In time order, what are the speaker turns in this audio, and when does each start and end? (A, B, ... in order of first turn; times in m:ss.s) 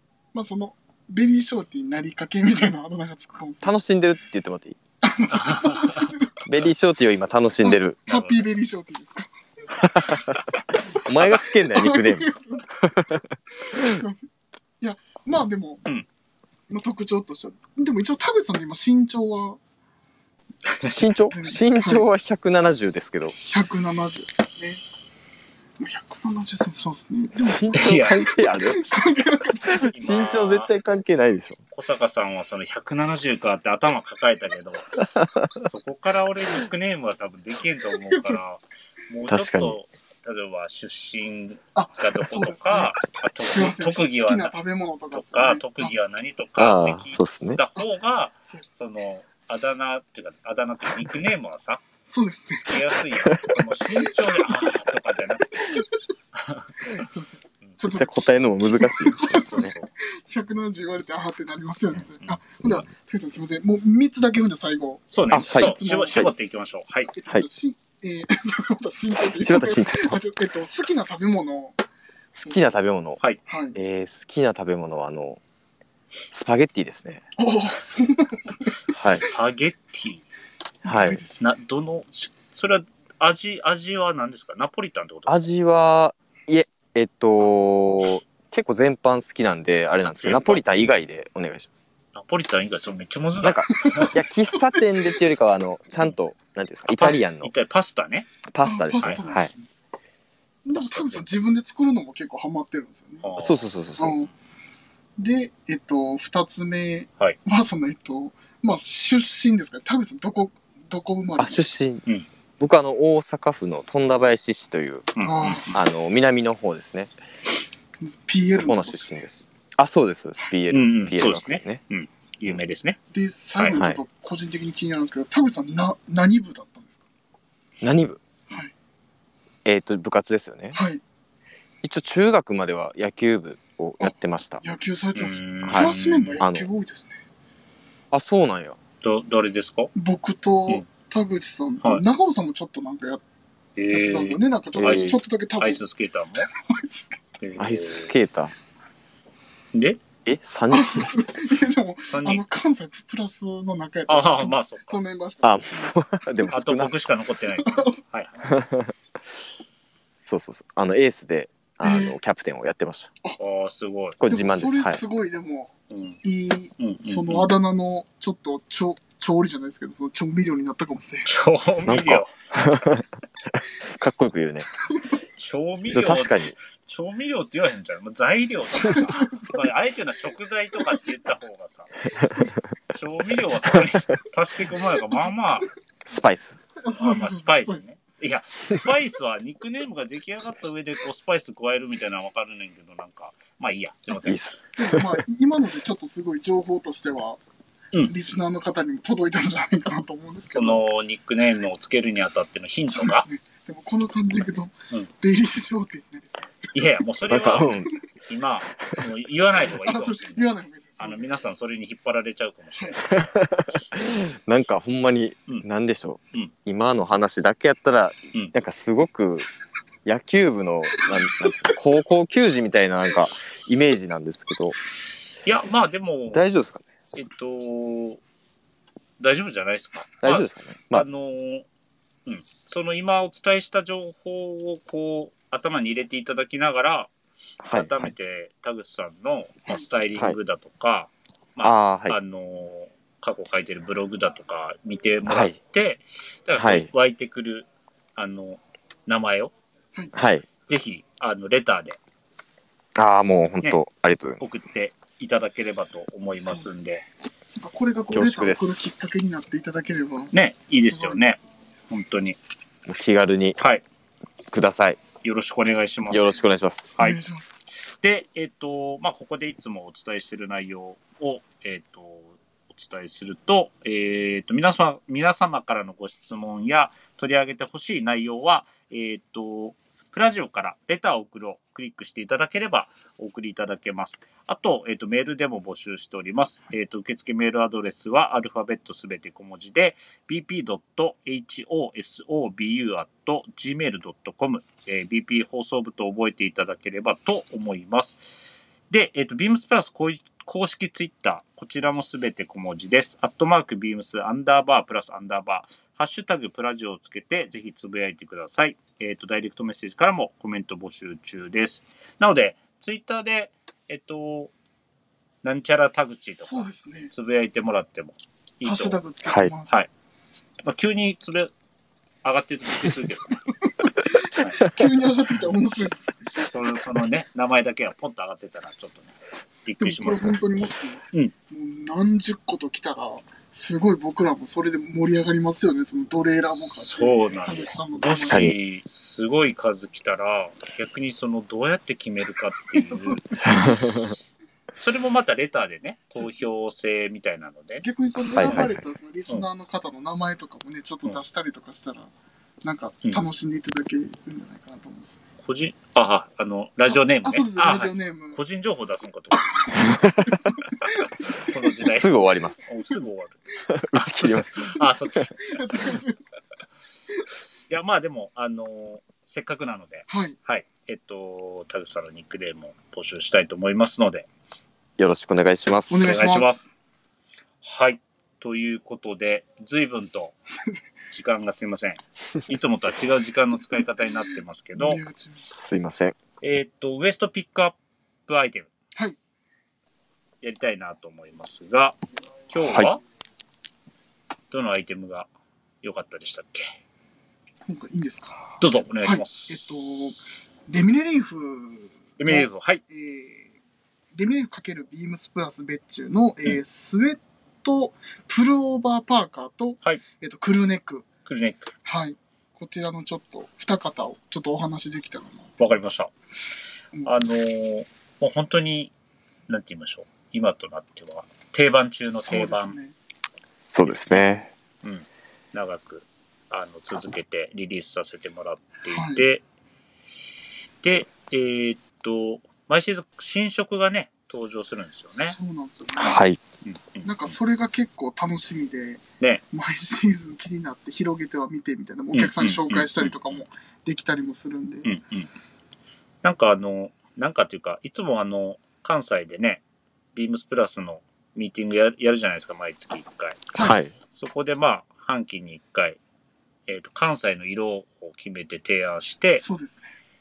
0:00.3-0:03.7 A
0:03.6-0:04.8 B
0:05.0-0:06.4 A
0:05.3-0:06.1 C
0:06.4-0:08.0 B
0:07.6-0:09.9 A
0:08.1-0:08.4 C
0:09.8-0:10.4 B
0:10.9-0:12.8 A
0:11.0-0:14.0 B
0:13.6-0:14.2 A
0:14.8-0:15.8 A
0:16.7-0:19.6 A
0:20.6-0:21.0 C
0:20.9-0:23.3 B
0:21.3-0:22.0 A
0:23.4-0:24.8 A
0:25.8-0:29.8 A
0:27.4-0:29.0 B
0:27.7-0:28.2 C
0:29.6-0:31.6 B
0:29.9-0:30.7 C
0:31.7-0:34.9 C
0:35.2-0:35.5 B
0:35.5-0:44.5 C
0:38.1-0:38.4 A
0:39.3-0:39.8 B
0:41.8-0:45.9 A
0:45.1-0:51.8 C
0:46.6-0:47.6 B
0:52.1-0:52.8 A
0:52.6-0:55.7 C
0:53.1-0:53.6 B
0:55.6-0:55.8 A
0:56.3-0:57.0 C
0:56.9-1:06.3 A
0:57.9-0:59.8 B
0:59.6-0:59.8 C
1:05.1-1:07.1 C
1:05.3-1:06.3 B
1:07.1-1:11.8 A
1:09.1-1:10.2 B
1:12.3-1:13.2 B
1:13.4-1:13.8 A
1:13.8-1:15.4 B
1:16.3-1:17.2 B
1:17.4-1:19.2 A
1:18.9-1:19.2 B
1:19.2-1:20.2 C
1:20.8-1:21.5 A
1:20.8-1:21.2 B
1:21.4-1:25.5 C
1:25.3-1:31.7 B
1:30.2-1:30.6 C
1:32.1-1:34.1 C
1:33.4-1:37.5 B
1:33.8-1:35.2 A
1:36.9-1:38.3 C
1:38.5-1:39.5 B
1:38.6-1:39.5 A
1:40.6-1:43.2 A
1:43.2-1:43.6 C
1:43.4-1:44.2 B
1:44.0-1:44.3 A
1:45.2-1:51.6 A
1:51.4-1:52.0 B
1:52.6-1:55.1 B
1:55.2-1:55.8 C
1:55.2-1:55.8 A
1:55.6-1:57.1 B
1:58.0-1:59.1 A
1:58.6-2:01.8 B
2:00.7-2:03.0 C
2:03.1-2:07.0 A
2:03.8-2:04.0 B
2:07.8-2:08.2 B
2:09.6-2:10.8 B
2:10.7-2:11.0 A
2:11.8-2:14.6 B
2:14.0-2:17.2 A
2:15.1-2:16.4 C
2:15.7-2:16.7 B
2:18.1-2:18.8 B
2:19.0-2:19.9 C
2:19.9-2:23.2 A
2:23.8-2:26.5 C
2:23.9-2:25.8 A
2:24.8-2:25.1 B
2:26.5-2:27.2 A
2:27.4-2:28.1 C
2:27.6-2:28.5 B
2:29.7-2:30.0 C
2:30.2-2:31.2 B
2:30.7-2:35.9 A
2:32.1-2:32.4 C
2:34.1-2:35.0 C
2:35.4-2:36.9 B
2:36.5-2:38.6 C
2:37.6-2:38.0 A
2:38.4-2:38.9 B
2:40.2-2:43.1 B
2:41.8-2:42.2 A
2:43.4-2:44.2 C
2:44.2-2:45.0 B
2:44.3-2:45.7 A
2:45.9-2:46.2 C
2:46.2-2:51.3 A
2:46.8-2:47.5 C
2:51.2-2:52.3 C
2:51.9-2:54.7 B
2:55.4-3:02.1 C
2:55.9-2:56.5 B
2:58.8-2:59.6 A
3:02.9-3:05.7 C
3:06.0-3:06.6 B
3:06.8-3:07.8 A
3:06.9-3:14.5 C
3:14.2-3:15.2 B
3:14.8-3:17.4 A
3:18.0-3:20.8 A
3:20.5-3:23.2 C
3:22.9-3:26.8 A
3:26.7-3:33.3 C
3:27.3-3:27.9 B
3:29.8-3:31.3 A
3:33.1-3:39.5 B
3:40.0-3:44.8 B
3:45.4-3:46.4 C
3:46.3-3:46.9 B
3:47.1-3:48.2 C
3:49.2-3:51.7 C
3:50.2-3:51.1 B
3:52.2-3:57.1 C
3:57.6-3:58.1 B
3:57.7-4:09.5 C
4:01.6-4:02.2 B
4:05.3-4:05.6 B
4:06.6-4:06.9 B
4:10.1-4:10.4 B
4:10.7-4:12.0 C
4:13.0-4:14.4 B
4:14.4-4:17.0 C
4:16.4-4:16.7 A
4:17.6-4:21.3 A
4:18.1-4:18.9 B
4:20.3-4:22.4 C
4:22.9-4:23.6 B
4:24.5-4:25.0 B
4:25.2-4:26.4 C
4:26.1-4:26.9 B
4:27.0-4:27.4 A
4:27.9-5:14.5 C
5:15.4-5:19.0 C
5:16.4-5:17.1 A
5:18.6-5:19.7 A
5:19.2-5:19.5 B
5:20.6-5:21.5 C
5:22.2-5:23.4 C
5:23.7-5:26.5 A
5:24.3-5:24.6 C
5:26.4-5:29.1 C
5:29.6-5:30.4 C
5:29.8-5:38.6 A
5:36.5-5:43.2 C
5:38.2-5:38.6 B
5:42.7-5:43.4 A
5:43.4-5:44.1 B
5:44.8-5:47.9 C
5:47.8-5:52.1 A
5:48.3-5:48.8 B
5:52.6-5:55.2 A
5:55.4-5:59.5 C
5:57.2-5:58.4 A
5:59.5-6:01.1 A
5:59.8-6:00.4 B
6:00.8-6:03.4 C
6:01.8-6:02.6 B
6:03.7-6:04.9 B
6:03.9-6:05.6 C
6:05.5-6:06.2 A
6:07.7-6:14.3 C
6:10.1-6:10.4 A
6:15.0-6:16.2 B
6:15.9-6:16.7 A
6:16.0-6:16.6 C
6:17.6-6:20.4 C
6:20.5-6:20.8 A
6:21.1-6:25.0 C
6:24.8-6:25.5 A
6:25.5-6:26.2 B
6:26.4-6:27.8 C
6:28.3-6:28.7 C
6:30.4-6:32.0 C
6:32.5-6:33.0 C
6:32.6-6:32.9 B
6:34.5-6:35.3 C
6:35.8-6:36.7 C
6:37.6-6:43.5 A
6:38.6-6:39.7 C
6:42.2-6:42.8 C
6:44.1-6:51.1 A
6:51.2-6:51.7 C
6:51.8-6:55.5 A
6:55.6-6:56.1 C
6:57.1-6:58.9 C
6:59.5-7:02.7 C
7:02.1-7:02.9 A
7:03.6-7:04.5 B
7:03.8-7:04.2 C
7:04.8-7:09.4 C
7:08.9-7:09.2 A
7:10.8-7:15.4 C
7:15.1-7:16.2 A
7:16.0-7:16.4 B
7:16.6-7:17.3 C
7:17.0-7:24.9 A
7:22.1-7:23.4 C
7:24.8-7:25.3 C
7:26.2-7:29.6 C
7:30.1-7:33.5 C
7:33.6-7:33.9 B
7:34.1-7:36.0 C
7:36.7-7:39.4 C
7:39.4-7:39.9 A